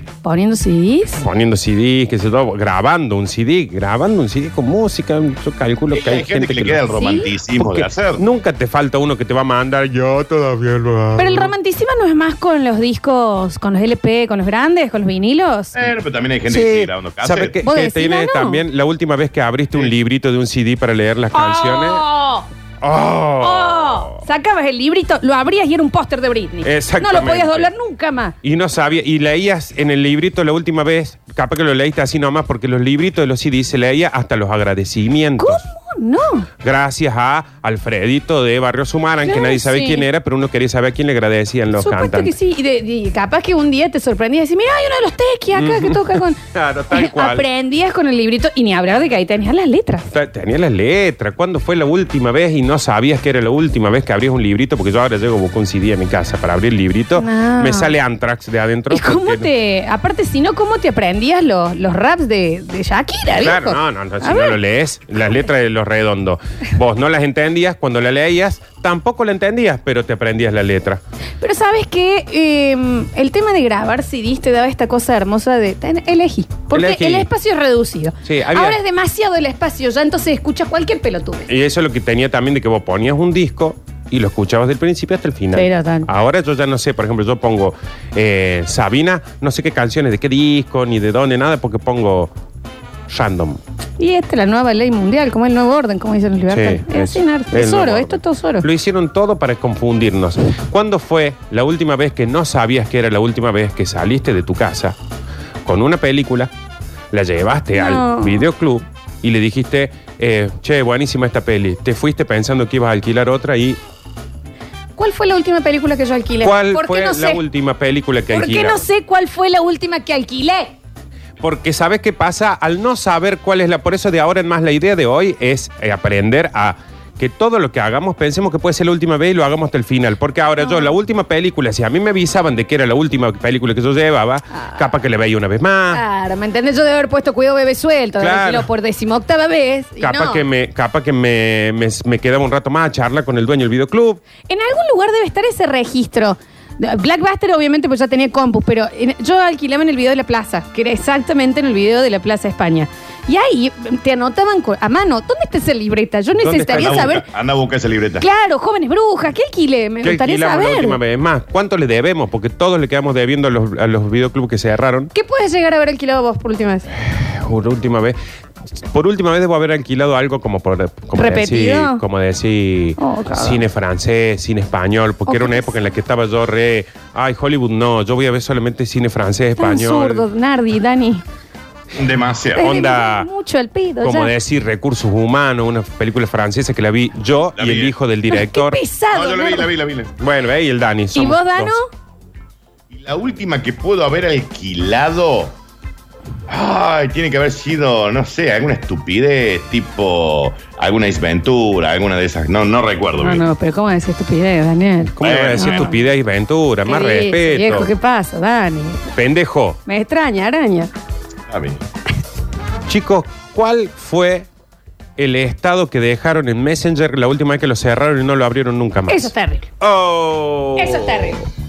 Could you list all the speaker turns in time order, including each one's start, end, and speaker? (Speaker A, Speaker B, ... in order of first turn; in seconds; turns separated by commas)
Speaker A: 0.2-1.2, Speaker B: 1.2-6.9, Speaker C: 5.9-8.2, Speaker A: 6.9-7.3, Speaker B: 7.6-11.5, Speaker A: 11.2-15.8, Speaker C: 15.8-17.6, Speaker B: 16.5-22.0, Speaker A: 17.6-18.6, Speaker A: 21.3-22.5, Speaker B: 22.8-24.2, Speaker A: 23.4-28.4, Speaker B: 26.6-27.7, Speaker B: 28.4-35.6, Speaker A: 35.4-36.5, Speaker B: 36.6-42.4, Speaker A: 39.2-40.1, Speaker A: 41.8-46.4, Speaker B: 45.5-47.5, Speaker A: 46.9-50.1, Speaker B: 50.1-59.5, Speaker A: 57.2-57.9, Speaker A: 58.9-64.6, Speaker B: 63.4-71.0, Speaker A: 71.4-81.5, Speaker B: 76.7-77.3, Speaker B: 78.2-78.8, Speaker B: 81.5-92.3, Speaker A: 85.5-86.1, Speaker B: 93.1-93.6, Speaker A: 94.0-98.7, Speaker B: 96.5-105.0, Speaker B: 105.7-106.5, Speaker B: 107.1-113.8, Speaker A: 107.7-108.4, Speaker A: 115.0-117.4, Speaker B: 116.4-118.8, Speaker A: 118.3-120.7, Speaker B: 121.4-136.0, Speaker A: 130.6-130.9, Speaker A: 134.5-134.8, Speaker A: 135.9-140.4, Speaker B: 138.2-138.7, Speaker B: 140.0-144.2, Speaker A: 144.5-157.2, Speaker B: 156.4-157.2, Speaker C: 156.7-158.3, Speaker A: 158.2-161.0, Speaker B: 160.0-165.1, Speaker A: 165.1-166.9, Speaker B: 167.0-168.2, Speaker B: 168.8-180.2, Speaker A: 171.2-172.0, Speaker A: 173.0-173.6, Speaker A: 175.3-175.7, Speaker A: 179.6-181.2, Speaker C: 181.9-182.7, Speaker B: 182.6-183.3, Speaker A: 182.6-184.3, Speaker B: 184.0-188.8, Speaker C: 187.6-187.9, Speaker A: 188.3-189.7, Speaker C: 189.1-190.1, Speaker B: 190.2-191.8, Speaker A: 191.2-191.9, Speaker C: 192.9-195.6, Speaker C: 196.5-203.4, Speaker A: 203.2-206.0, Speaker B: 205.1-207.9, Speaker C: 205.2-205.9, Speaker A: 206.8-209.0, Speaker B: 209.2-209.8, Speaker A: 209.9-210.9, Speaker C: 211.5-211.8, Speaker B: 212.9-214.5, Speaker B: 215.2-221.4, Speaker A: 219.1-219.7, Speaker A: 220.8-221.4